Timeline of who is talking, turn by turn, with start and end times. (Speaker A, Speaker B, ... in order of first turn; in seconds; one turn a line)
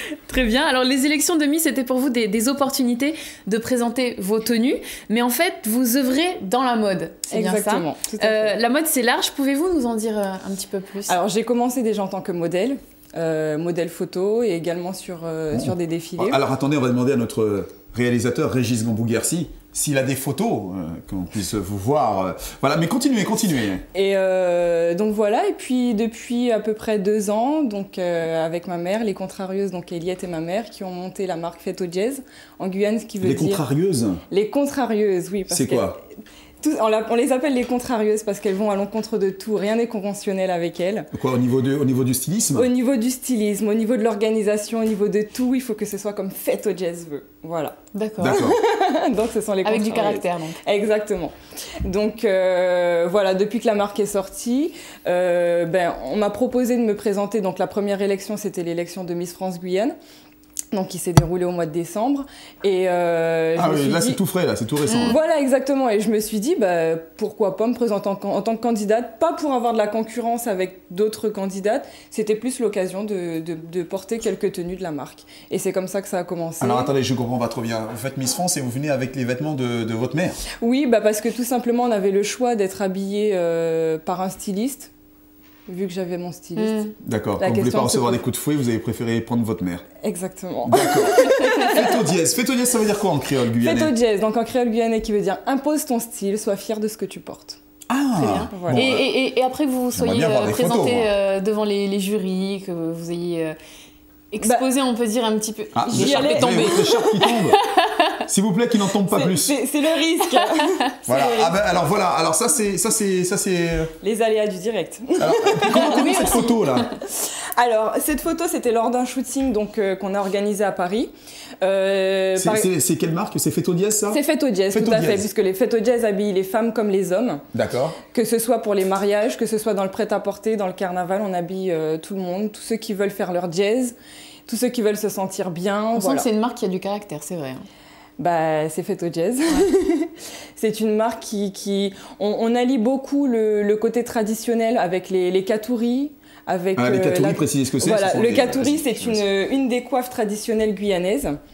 Speaker A: 0.3-11.2
Speaker B: 7.3-8.5
Speaker B: 11.1-16.4
Speaker C: 15.5-23.8
Speaker B: 23.9-33.6
Speaker C: 33.2-34.2
Speaker B: 34.3-36.0
Speaker C: 35.5-36.0
Speaker B: 36.6-41.1
Speaker C: 41.1-42.7
Speaker B: 42.5-60.0
Speaker A: 47.9-48.4
Speaker C: 48.2-48.6
Speaker A: 49.6-50.6
Speaker B: 60.7-64.2
Speaker C: 63.5-65.2
Speaker A: 64.9-65.2
Speaker B: 65.0-76.9
Speaker C: 76.6-80.4
Speaker B: 80.6-84.9
Speaker B: 85.7-88.2
Speaker A: 86.6-86.9
Speaker C: 87.0-89.8
Speaker B: 90.0-92.0
Speaker C: 90.7-93.9
Speaker A: 91.2-91.9
Speaker B: 93.6-97.6
Speaker C: 97.9-99.2
Speaker A: 98.1-103.5
Speaker B: 98.5-98.9
Speaker C: 99.9-101.1
Speaker A: 104.3-108.2
Speaker C: 105.7-107.6
Speaker B: 105.8-107.0
Speaker C: 108.3-109.5
Speaker B: 109.0-111.6
Speaker C: 111.1-113.9
Speaker B: 114.0-122.7
Speaker C: 115.2-116.9
Speaker A: 115.7-116.9
Speaker C: 122.4-124.2
Speaker B: 124.1-127.4
Speaker C: 124.7-125.3
Speaker C: 127.5-128.0
Speaker B: 128.1-133.9
Speaker B: 134.4-136.3
Speaker A: 135.9-137.6
Speaker B: 138.2-151.4
Speaker C: 146.8-149.2